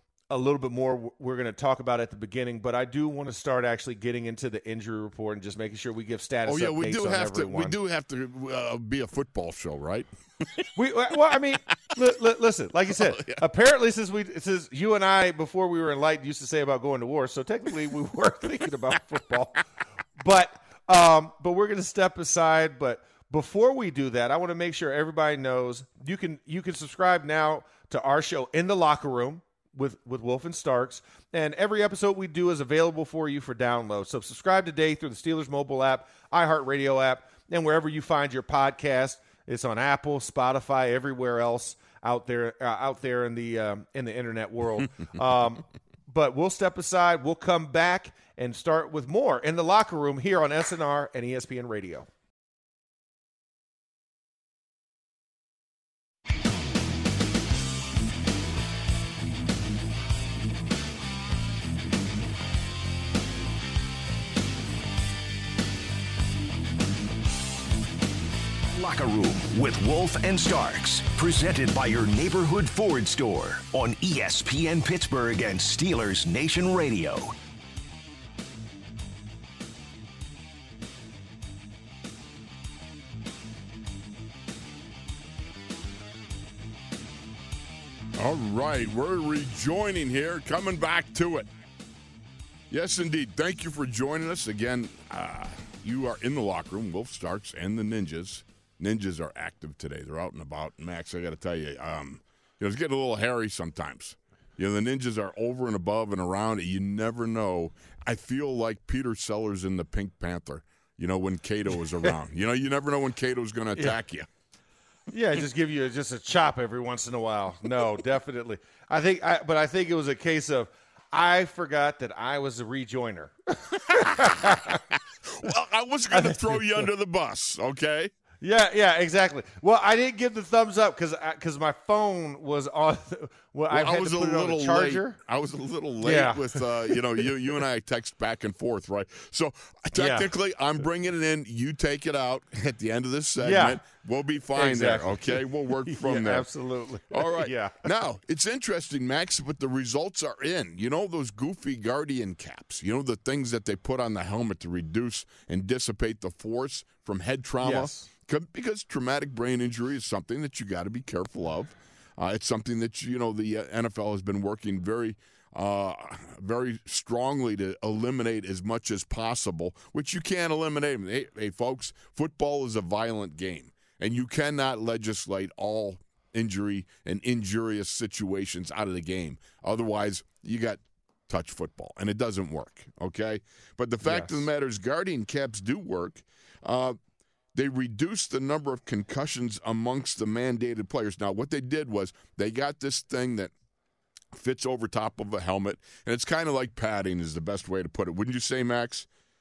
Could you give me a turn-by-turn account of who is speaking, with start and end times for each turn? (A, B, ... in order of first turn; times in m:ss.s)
0:00.3-0:07.8 A
0:06.5-0:10.7 B
0:10.8-0:19.6 A
0:13.0-0:13.4 B
0:20.2-0:52.1 A
1:08.7-1:17.4 C
1:28.2-1:31.5 B
1:32.7-1:54.3 B
1:55.1-2:04.8 A
2:04.2-2:08.1 B
2:06.1-2:06.9 A
2:08.4-2:15.2 A
2:13.7-2:26.5 B
2:16.0-2:17.3 A
2:20.0-2:20.3 A
2:23.4-2:23.8 A
2:24.6-2:27.8 A
2:27.1-3:07.0 B
2:37.6-2:38.1 A
3:04.0-3:04.5 A
3:07.5-3:13.5 B
3:14.3-3:19.1 B